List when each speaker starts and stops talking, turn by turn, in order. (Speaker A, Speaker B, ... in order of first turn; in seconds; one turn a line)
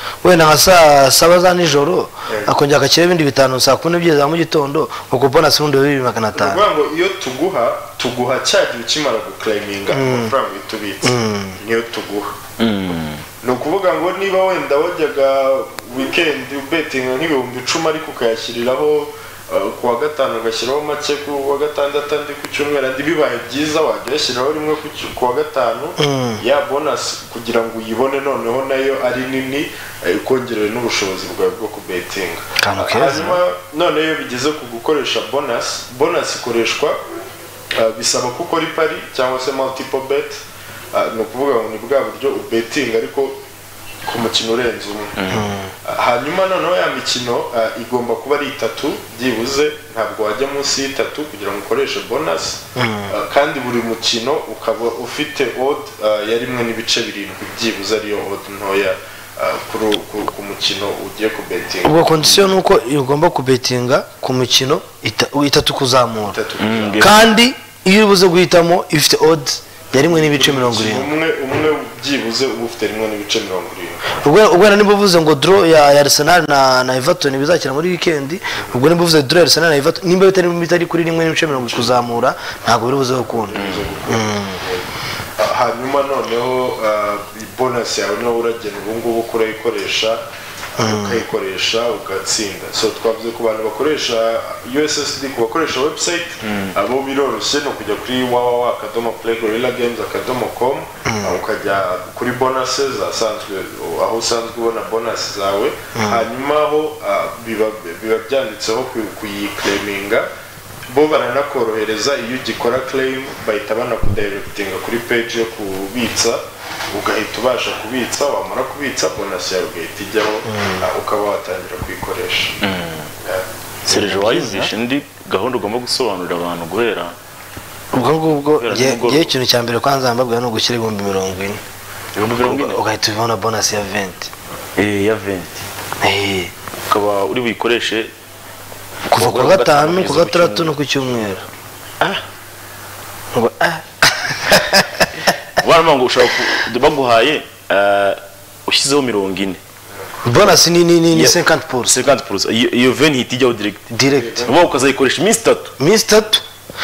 Speaker A: 0.2-6.6
Speaker B: 2.3-2.5
Speaker B: 6.3-12.4
Speaker A: 9.9-10.3
Speaker A: 11.0-11.6
Speaker C: 12.6-13.2
Speaker B: 13.4-37.0
Speaker A: 26.0-26.4
Speaker A: 32.6-33.4
Speaker B: 37.8-40.4
Speaker B: 40.9-43.4
Speaker B: 44.0-45.2
Speaker C: 45.2-45.5
Speaker A: 45.3-45.7
Speaker B: 45.9-62.3
Speaker A: 52.8-53.1
Speaker A: 61.9-66.4
Speaker B: 66.3-67.2
Speaker C: 66.6-67.2
Speaker A: 67.0-71.1
Speaker B: 70.0-74.2
Speaker A: 74.2-84.6
Speaker B: 81.5-82.0
Speaker B: 83.4-84.9
Speaker C: 83.5-83.9
Speaker B: 85.4-90.2
Speaker B: 90.8-110.3
Speaker A: 90.8-91.2
Speaker C: 96.4-96.7
Speaker A: 101.0-101.4
Speaker A: 106.0-106.2
Speaker B: 110.9-122.6
Speaker A: 120.5-120.8
Speaker C: 122.6-123.1
Speaker C: 123.9-127.2
Speaker A: 123.9-124.7
Speaker A: 127.9-131.6
Speaker C: 128.6-129.3
Speaker C: 132.1-132.8
Speaker A: 132.3-134.3
Speaker C: 134.8-135.7
Speaker A: 136.0-136.5
Speaker C: 136.9-138.1
Speaker A: 139.1-141.4
Speaker C: 139.1-140.7
Speaker A: 143.3-145.1
Speaker C: 145.6-149.6
Speaker A: 150.2-152.0
Speaker C: 151.1-155.7
Speaker A: 153.9-154.5
Speaker B: 154.1-154.6
Speaker A: 155.8-156.4